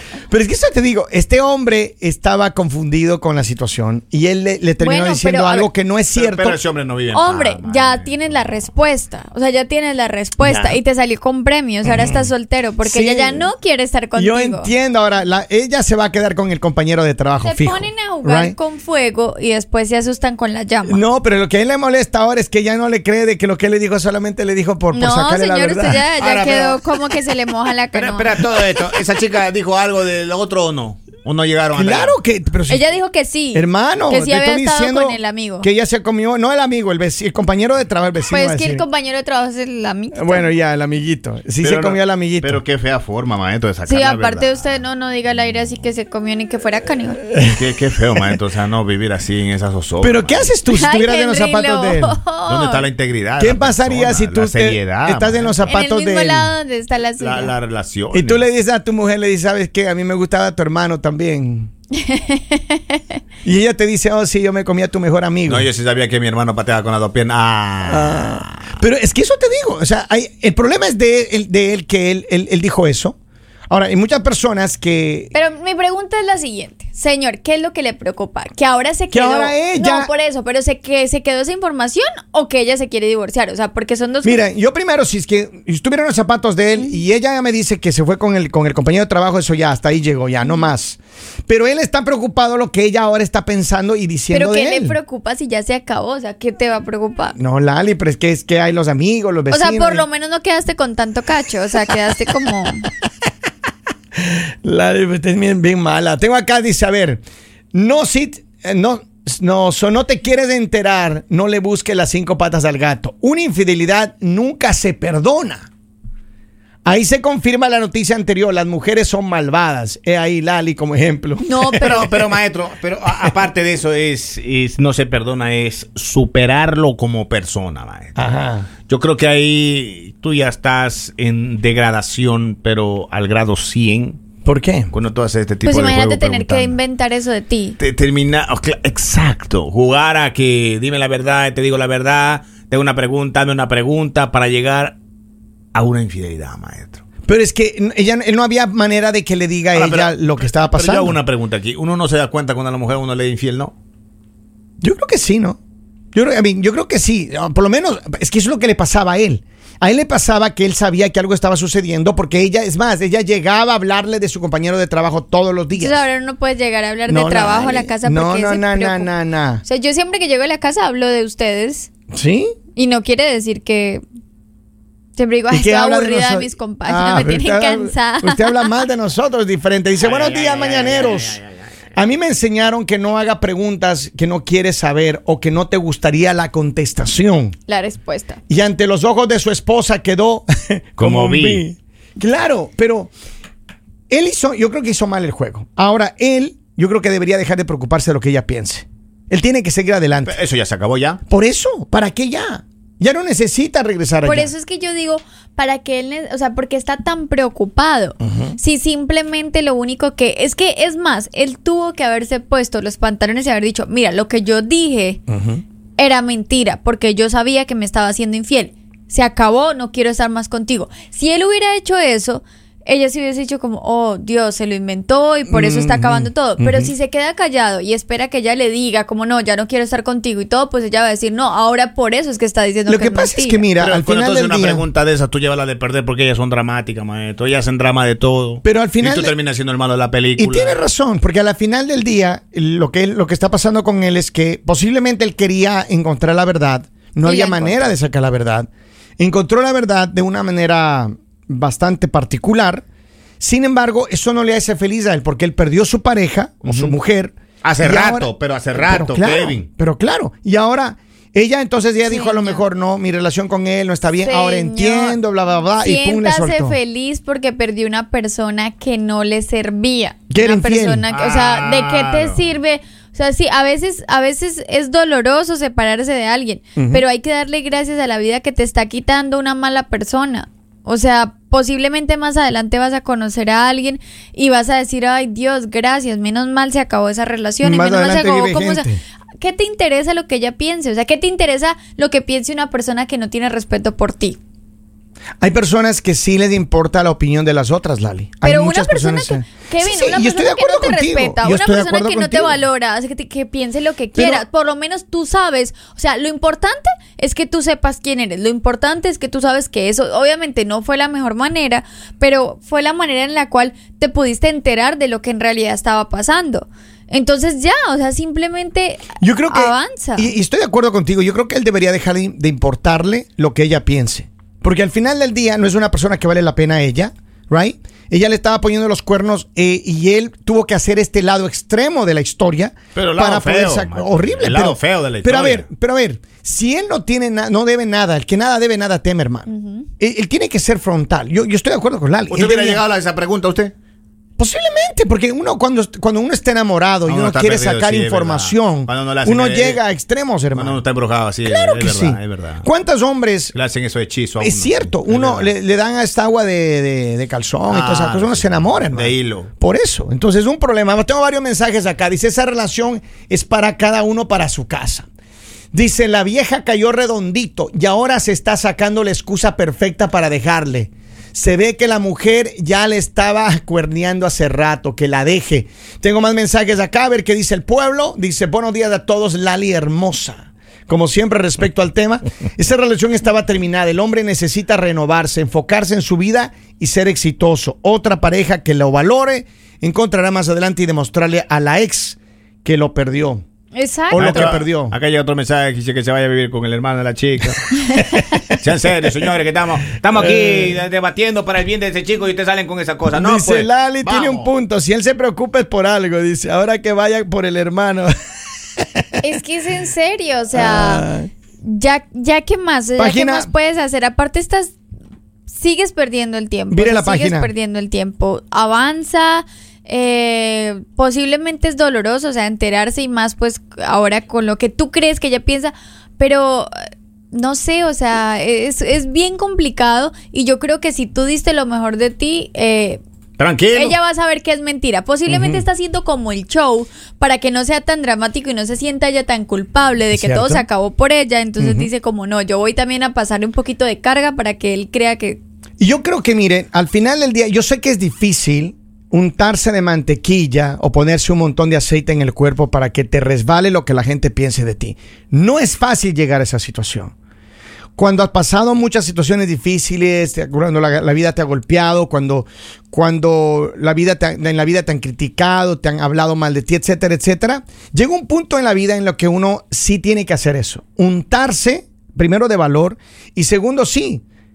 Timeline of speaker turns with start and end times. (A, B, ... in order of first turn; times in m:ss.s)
0:00.3-0:06.6 A
0:04.8-0:05.7 B
0:06.1-0:08.5 C
0:07.1-0:14.7 B
0:10.4-0:10.8 A
0:11.8-0:12.3 A
0:12.8-0:13.5 A
0:14.2-0:18.6 A
0:17.4-0:21.0 B
0:20.8-0:26.1 A
0:24.9-0:28.4 B
0:26.2-0:26.8 C
0:27.9-0:32.2 C
0:31.7-0:32.9 A
0:32.7-0:35.7 B
0:33.5-0:38.8 A
0:38.3-0:40.5 B
0:40.1-0:42.6 A
0:41.6-0:44.5 C
0:43.8-0:47.2 B
0:47.4-0:50.5 C
0:50.0-0:52.2 A
0:50.7-0:52.8 B
0:52.5-0:55.6 C
0:53.4-0:56.5 A
0:55.6-0:57.5 B
0:57.2-0:58.4 C
0:58.1-1:01.7 A
1:01.9-1:03.0 B
1:03.4-1:05.7 A
1:05.4-1:08.8 C
1:07.9-1:13.2 A
1:13.7-1:15.3 A
1:15.3-1:24.4 B
1:19.1-1:20.1 A
1:24.2-1:35.0 A
1:34.3-1:37.4 B
1:37.4-1:40.0 A
1:39.5-1:42.8 B
1:44.2-1:47.2 A
1:47.7-1:55.7 A
1:56.8-2:02.2 A
2:01.4-2:02.1 B
2:01.8-2:08.2 C
2:08.2-2:08.7 A
2:08.9-2:14.2 C
2:14.4-2:14.9 A
2:14.9-2:16.8 C
2:15.6-2:17.8 B
2:17.8-2:25.0 C
2:25.7-2:27.0 C
2:27.2-2:31.2 A
2:29.7-2:33.7 C
2:34.8-2:35.6 A
2:36.1-2:46.0 A
2:45.7-2:49.1 B
2:47.1-2:49.6 A
2:49.6-2:51.9 B
2:52.1-2:52.5 A
2:52.7-2:54.0 B
2:55.2-2:58.8 B
2:55.5-3:01.4 A
3:00.0-3:01.6 C
3:02.0-3:07.5 A
3:07.7-3:08.4 B
3:08.5-3:13.1 A
3:11.0-3:11.6 C
3:14.1-3:20.4 A
3:20.2-3:21.2 C
3:21.3-3:24.5 A
3:24.2-3:35.2 B
3:28.2-3:28.6 A
3:35.3-3:35.6 A
3:36.0-3:53.7 B
3:45.5-3:46.9 A
3:52.9-3:54.8 A
3:53.8-4:00.8 C
3:58.6-3:59.3 A
4:00.4-4:08.7 A
4:07.2-4:07.9 B
4:09.2-4:12.8 A
4:13.4-4:26.8 A
4:16.6-4:17.0 C
4:17.6-4:19.7 C
4:22.1-4:22.6 B
4:24.2-4:25.2 B
4:25.8-4:48.8 B
4:30.3-4:31.1 A
4:31.1-4:32.4 C
4:36.8-4:37.0 A
4:47.6-4:49.0 A
4:49.4-4:54.4 B
4:55.4-5:02.6 A
4:58.4-5:20.3 B
5:04.2-5:04.4 A
5:19.2-5:39.5 A
5:32.9-5:35.6 C
5:39.5-5:39.9 B
5:40.0-5:42.8 A
5:42.3-5:43.7 C
5:44.4-5:50.8 A
5:47.0-5:49.8 C
5:50.5-5:52.6 C
5:51.4-5:53.5 A
5:53.5-5:55.5 C
5:54.4-6:05.1 A
5:57.7-5:59.5 C
6:05.7-6:33.4 A
6:33.7-6:34.6 B
6:34.1-6:35.0 A
6:34.1-6:38.0 C
6:38.0-6:38.2 A
6:38.5-6:44.5 C
6:40.2-6:40.7 A
6:43.1-6:48.1 A
6:48.8-6:49.0 A
6:49.2-6:51.1 B
6:50.5-6:51.3 A
6:51.6-6:54.7 B
6:53.0-6:53.5 A
6:55.5-7:06.7 B
6:56.7-6:57.5 A
7:07.3-7:13.0 B
7:13.4-7:14.0 C
7:13.7-7:25.4 B
7:15.3-7:15.6 A
7:20.1-7:20.6 A
7:21.6-7:21.9 A
7:25.8-7:37.1 A
7:38.0-7:54.2 A